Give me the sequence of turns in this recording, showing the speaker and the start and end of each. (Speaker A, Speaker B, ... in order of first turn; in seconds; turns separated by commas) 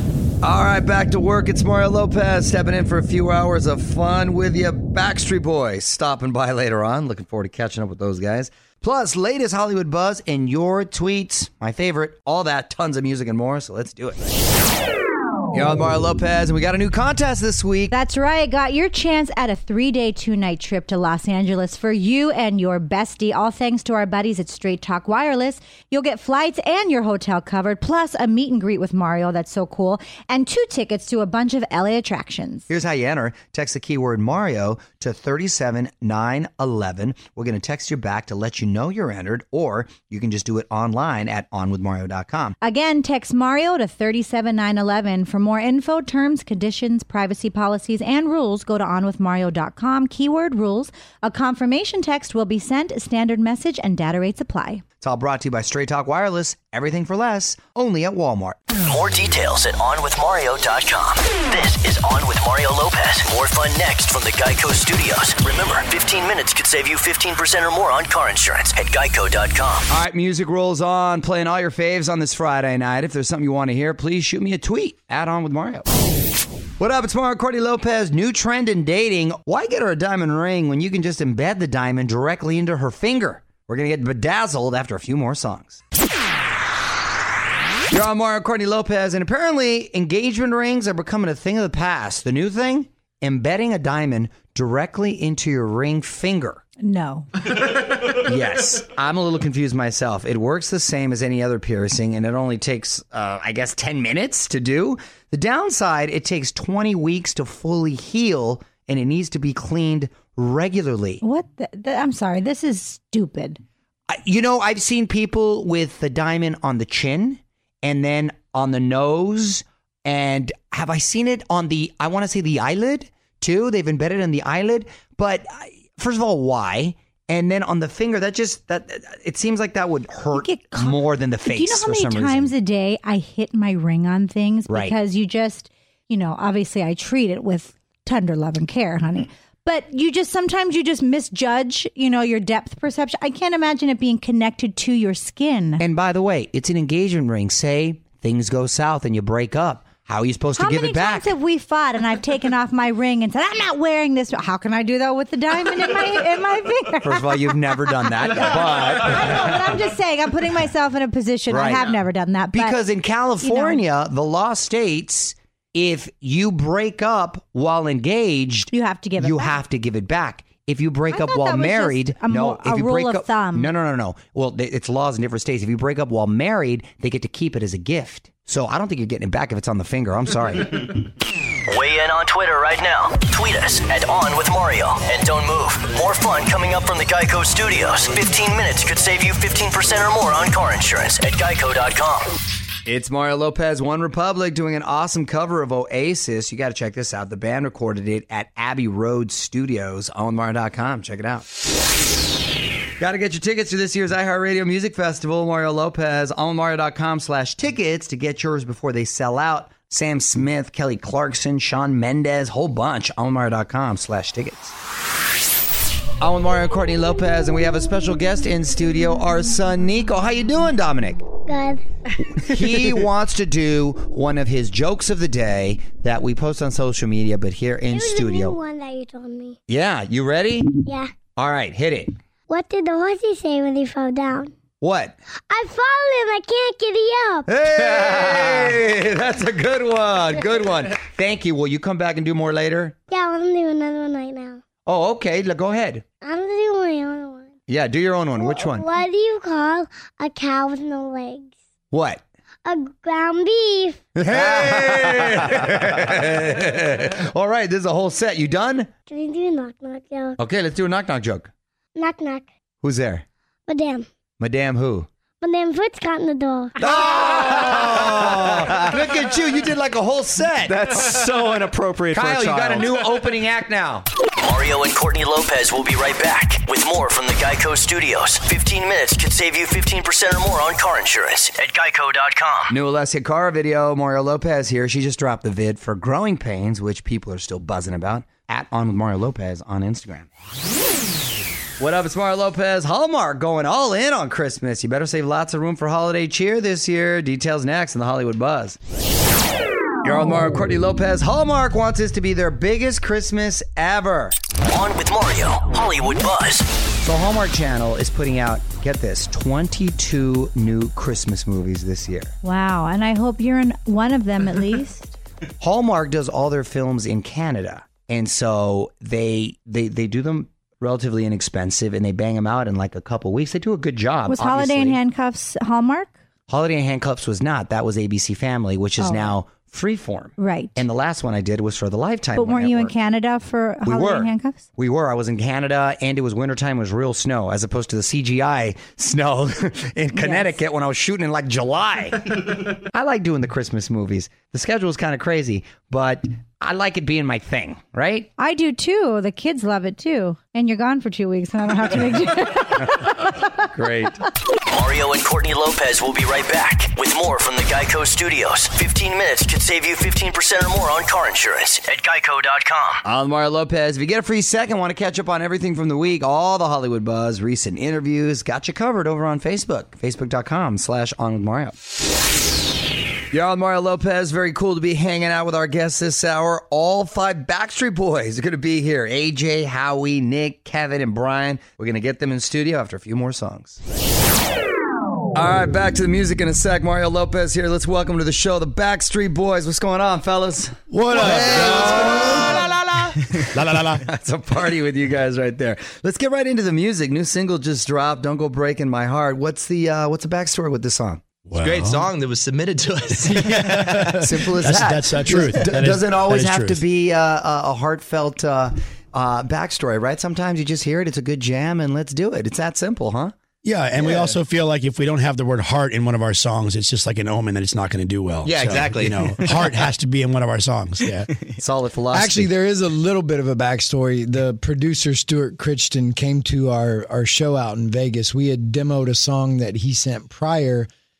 Speaker A: 0.4-14.2, Speaker A: 15.5-17.9, Speaker B: 17.9-32.7, Speaker A: 32.7-42.5, Speaker B: 42.6-54.8, Speaker A: 55.0-58.7, Speaker C: 58.8-69.9, Speaker A: 69.9-75.9, Speaker A: 76.8-85.8, Speaker A: 87.9-96.6, Speaker B: 96.8-97.3, Speaker A: 98.2-111.2, Speaker B: 111.2-113.6, Speaker A: 114.1-132.5, Speaker B: 130.3-145.8, Speaker A: 134.7-134.9, Speaker A: 145.8-151.3, Speaker B: 150.6-157.6, Speaker A: 157.0-159.2, Speaker B: 158.2-162.8, Speaker A: 161.5-180.9, Speaker B: 163.4-163.8, Speaker B: 168.7-169.6, Speaker B: 171.1-173.7, Speaker C: 181.7-192.3, Speaker A: 192.8-201.4, Speaker A: 203.0-214.7, Speaker A: 216.2-221.3, Speaker D: 221.5-221.8, Speaker A: 222.4-228.6, Speaker D: 227.9-229.6, Speaker A: 229.7-232.2, Speaker D: 230.8-231.1, Speaker D: 232.5-234.5, Speaker A: 234.8-235.2, Speaker D: 235.5-237.5, Speaker A: 237.5-243.0, Speaker D: 243.1-244.6, Speaker A: 244.8-246.0, Speaker D: 246.2-247.5, Speaker A: 247.7-248.9, Speaker D: 248.4-251.5, Speaker A: 251.9-252.2, Speaker D: 252.6-254.0, Speaker A: 254.2-258.9, Speaker E: 254.3-255.1, Speaker D: 259.1-260.4, Speaker A: 260.4-261.5, Speaker D: 261.9-262.4, Speaker A: 262.8-263.2, Speaker D: 263.7-264.1, Speaker A: 264.4-265.1, Speaker D: 265.4-266.7, Speaker A: 266.8-270.8, Speaker E: 267.6-268.0, Speaker E: 268.6-269.0, Speaker E: 270.6-272.9, Speaker A: 272.1-274.1, Speaker C: 274.4-282.7, Speaker A: 282.7-290.3, Speaker A: 291.8-298.8, Speaker A: 300.0-304.4, Speaker C: 304.6-306.7, Speaker A: 307.0-312.3, Speaker B: 312.4-315.1, Speaker A: 315.6-325.0, Speaker B: 324.3-326.1, Speaker A: 326.5-332.9, Speaker B: 329.0-329.3, Speaker B: 330.4-330.8, Speaker B: 332.3-334.6, Speaker A: 333.8-348.3, Speaker B: 340.1-340.6, Speaker B: 348.4-353.5, Speaker A: 353.7-354.2, Speaker C: 354.6-363.0, Speaker A: 363.1-371.8, Speaker A: 373.3-383.8, Speaker A: 385.3-401.2, Speaker F: 390.9-392.5, Speaker F: 393.5-394.0, Speaker F: 401.5-402.1, Speaker G: 401.6-403.5, Speaker F: 403.5-406.8, Speaker A: 403.5-413.3, Speaker F: 413.6-421.0, Speaker G: 418.6-419.3, Speaker H: 421.0-421.3, Speaker A: 421.6-422.4, Speaker H: 422.1-430.9